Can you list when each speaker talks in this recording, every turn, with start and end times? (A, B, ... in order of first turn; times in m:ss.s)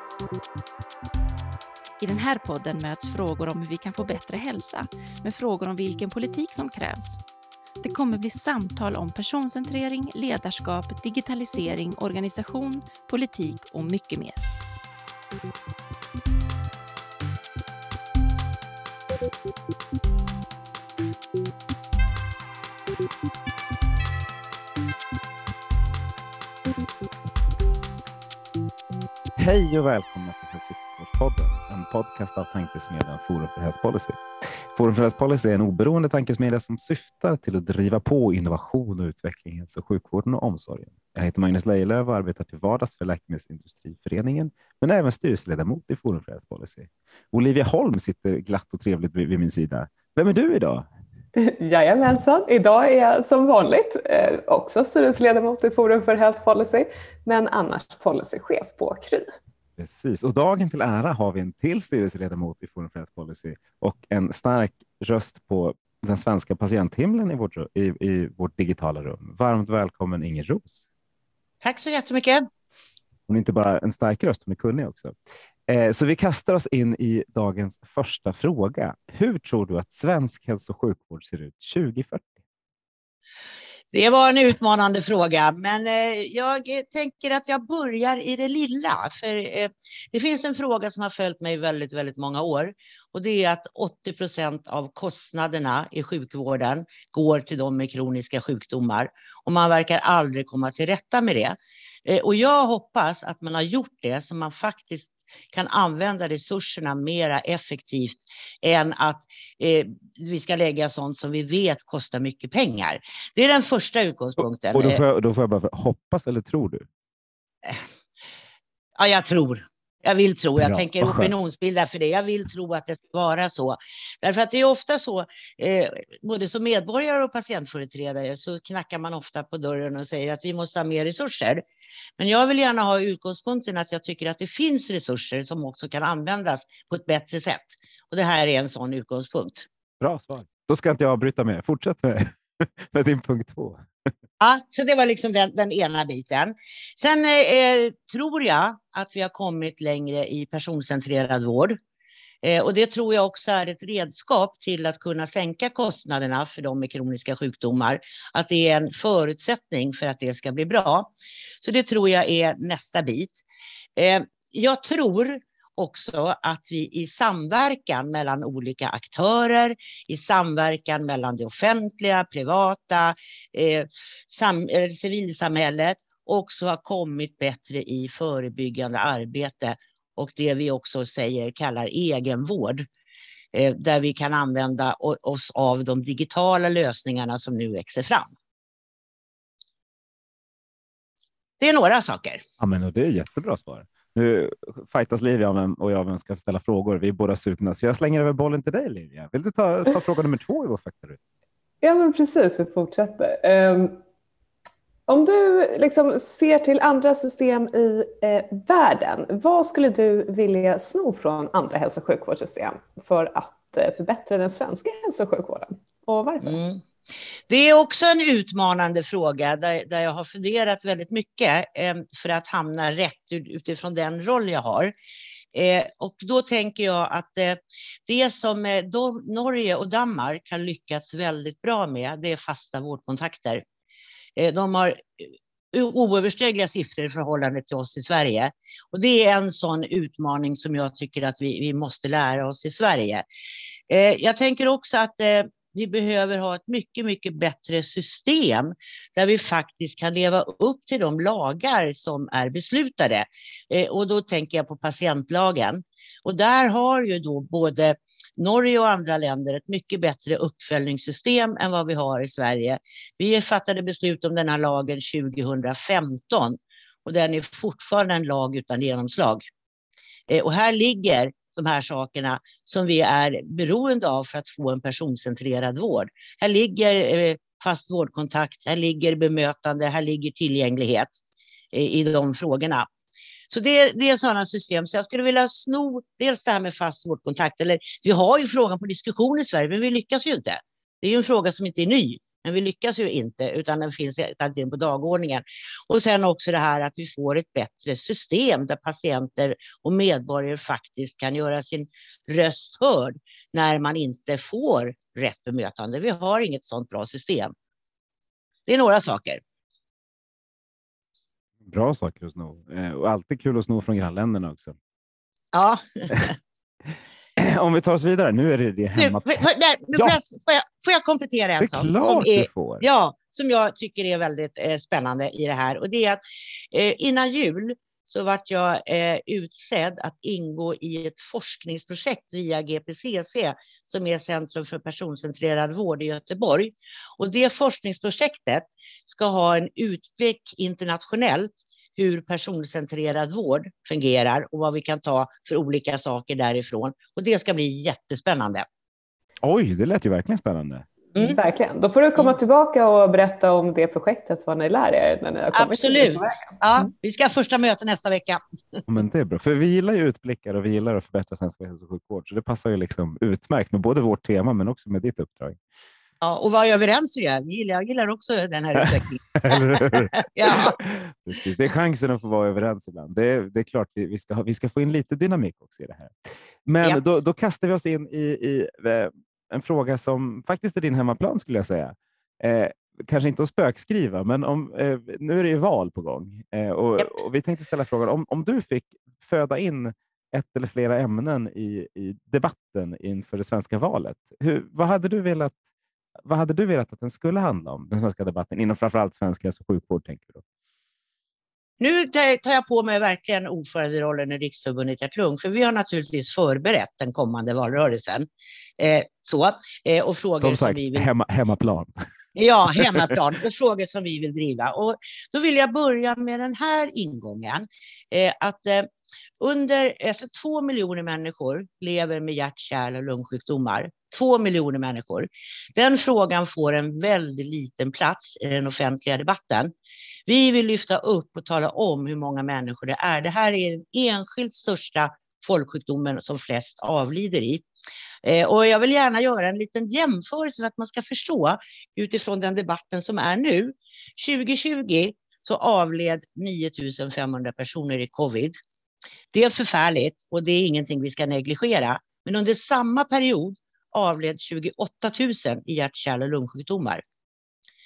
0:02.0-0:07.2 A
0:07.8-0:14.4 A
0:29.4-0:50.9 B
0:51.4-0:59.3 C
0:59.8-1:10.8 B
1:11.6-1:12.4 D
1:13.3-1:15.1 B
1:15.7-1:22.3 B
1:23.9-1:55.0 D
1:54.7-1:56.9 B
1:59.0-2:11.6 D
2:00.6-2:01.3 B
2:12.2-2:19.7 D
2:20.0-2:23.8 B
2:24.4-2:31.8 D
2:32.4-2:41.1 D
2:41.6-2:43.4 D
2:44.0-3:02.9 D
3:03.5-3:08.3 D
3:11.6-3:12.4 D
3:12.6-3:21.2 B
3:21.8-3:24.0 C
3:25.1-3:36.6 C
3:36.4-3:36.8 D
3:37.5-3:44.9 D
3:45.5-3:53.6 D
3:54.4-4:03.2 D
4:03.9-4:29.4 D
4:30.3-4:41.2 D
4:41.7-4:42.9 D
4:43.5-5:07.5 D
5:08.7-5:09.4 D
5:11.6-5:14.8 B
5:15.5-5:16.3 D
5:17.4-5:19.4 B
5:19.0-5:26.2 D
5:21.6-5:22.8 B
5:26.7-5:48.6 D
5:49.4-5:50.9 B
5:51.2-5:56.9 C
5:55.5-5:58.8 D
5:58.9-6:05.6 B
6:06.2-6:10.8 D
6:09.4-6:35.6 B
6:36.2-6:40.4 B
6:41.8-6:48.3 D
6:48.8-6:51.1 D
6:50.4-6:51.9 B
6:52.3-6:58.9 D
6:52.7-6:53.1 B
6:59.4-7:09.7 D
7:10.3-7:17.6 D
7:18.2-7:28.6 D
7:29.3-7:37.0 D